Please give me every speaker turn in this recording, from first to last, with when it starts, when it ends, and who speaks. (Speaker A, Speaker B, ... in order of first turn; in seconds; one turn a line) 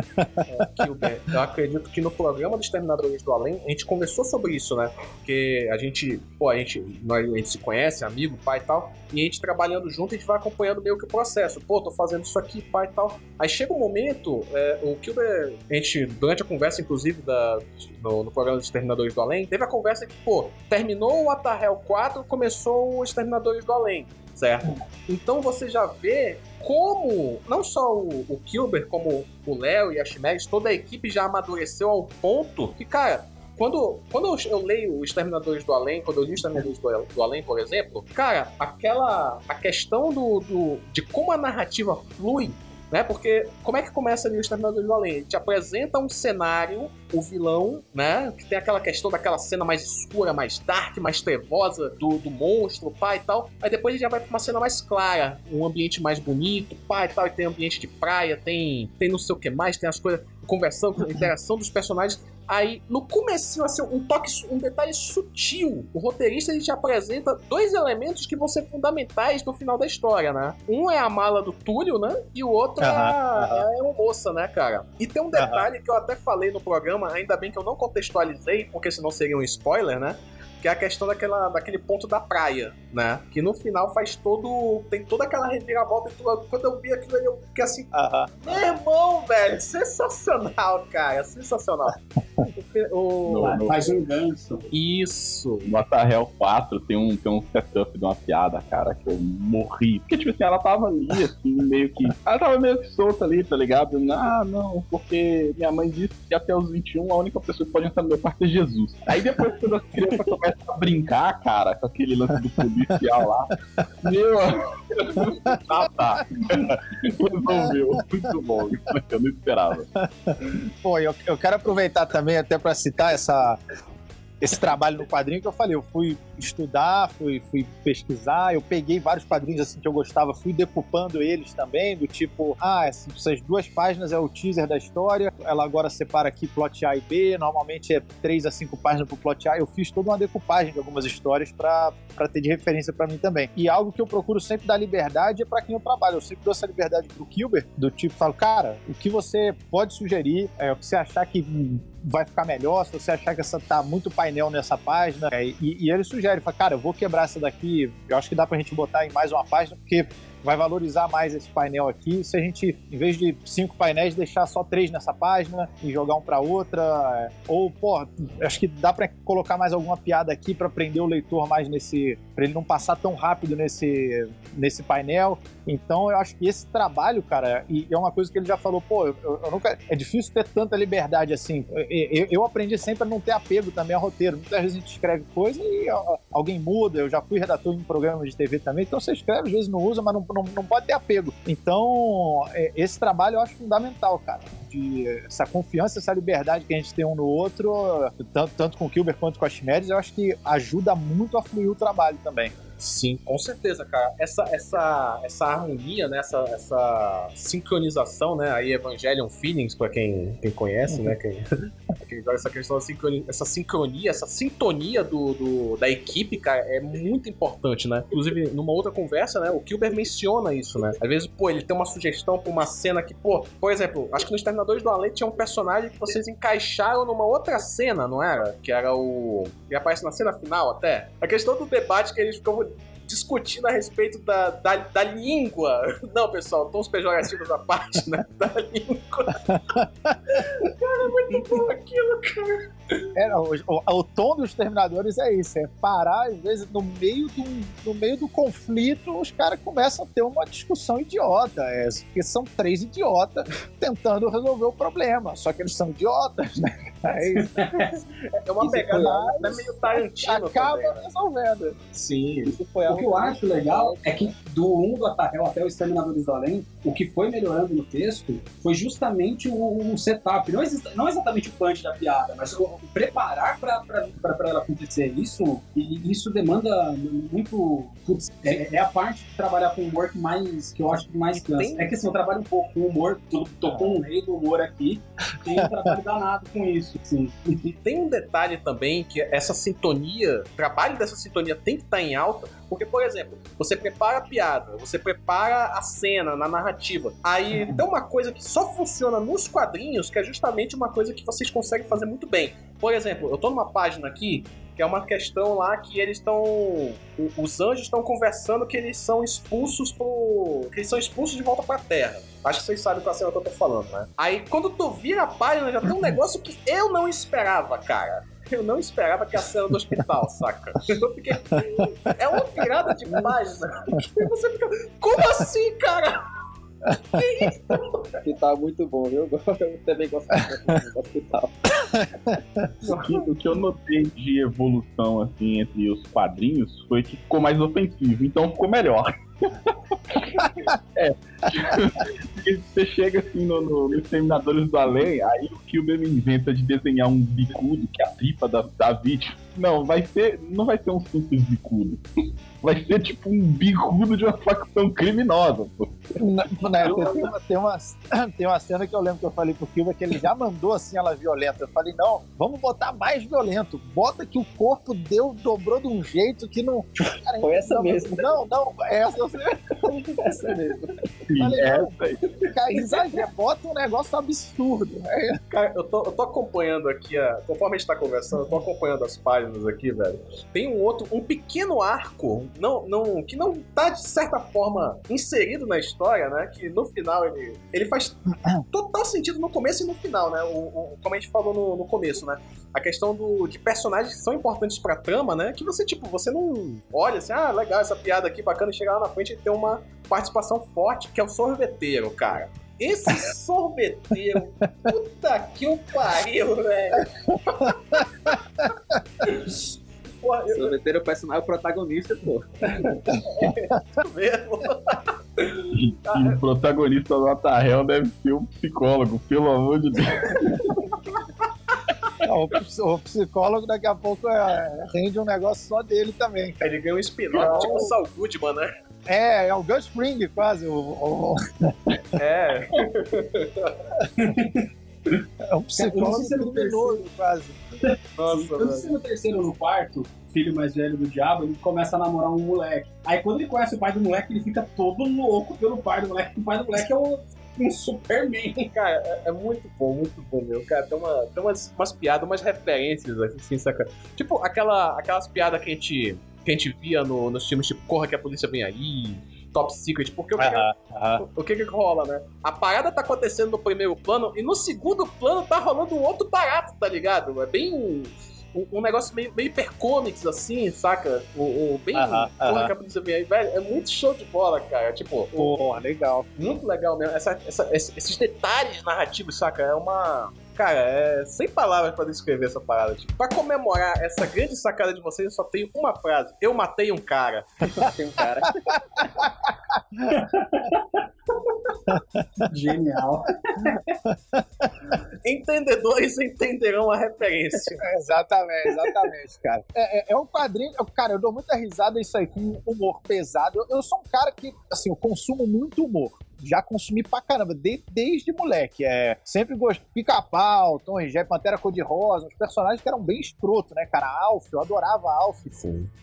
Speaker A: 0.1-0.7
Speaker B: 0.4-93.6
Speaker A: 72.8-73.7
Speaker A: 75.3-75.7
Speaker A: 87.9-88.6
Speaker C: 93.2-94.0
Speaker D: 93.4-94.7
Speaker B: 94.7-95.7
Speaker C: 95.6-119.9
Speaker A: 112.9-113.2
Speaker A: 116.5-116.8
Speaker A: 117.5-118.3
Speaker A: 120.0-123.6
Speaker A: 124.4-202.5
Speaker B: 202.8-239.6
Speaker A: 239.7-240.2
Speaker B: 240.3-243.2
Speaker A: 243.1-257.6
Speaker D: 257.2-258.0
Speaker B: 258.3-261.1
Speaker E: 258.6-259.6
Speaker A: 258.6-261.8
Speaker B: 261.8-262.5
Speaker E: 262.4-264.3
Speaker D: 262.9-287.7
Speaker B: 281.5-281.9
Speaker A: 283.7-284.0
Speaker B: 287.7-326.2
Speaker A: 321.6-321.8
Speaker B: 326.9-328.1
Speaker E: 328.2-331.8
Speaker A: 331.9-332.7
Speaker C: 332.8-352.0
Speaker C: 352.6-356.1
Speaker A: 356.2-370.6
Speaker E: 367.4-368.4
Speaker E: 369.8-370.9
Speaker C: 371.3-372.4
Speaker A: 371.4-375.4
Speaker B: 375.5-408.3
Speaker B: 410.2-410.7
Speaker E: 410.5-413.1
Speaker B: 413.1-416.4
Speaker C: 415.7-421.0
Speaker A: 422.2-426.6
Speaker B: 426.6-428.7
Speaker A: 427.3-427.9
Speaker A: 429.1-432.2
Speaker B: 432.1-433.9
Speaker D: 434.2-435.2
Speaker A: 435.4-437.6
Speaker D: 435.8-437.0
Speaker B: 438.2-439.0
Speaker D: 438.3-448.7
Speaker B: 448.7-475.6
Speaker A: 460.4-461.2
Speaker A: 471.9-472.7
Speaker A: 475.4-476.4
Speaker B: 476.4-487.9
Speaker E: 487.7-489.0
Speaker A: 489.2-490.3
Speaker D: 490.1-491.0
Speaker A: 491.9-492.4
Speaker D: 492.4-493.8
Speaker A: 494.1-494.7
Speaker B: 495.2-497.9
Speaker A: 497.8-515.6
Speaker B: 515.6-515.9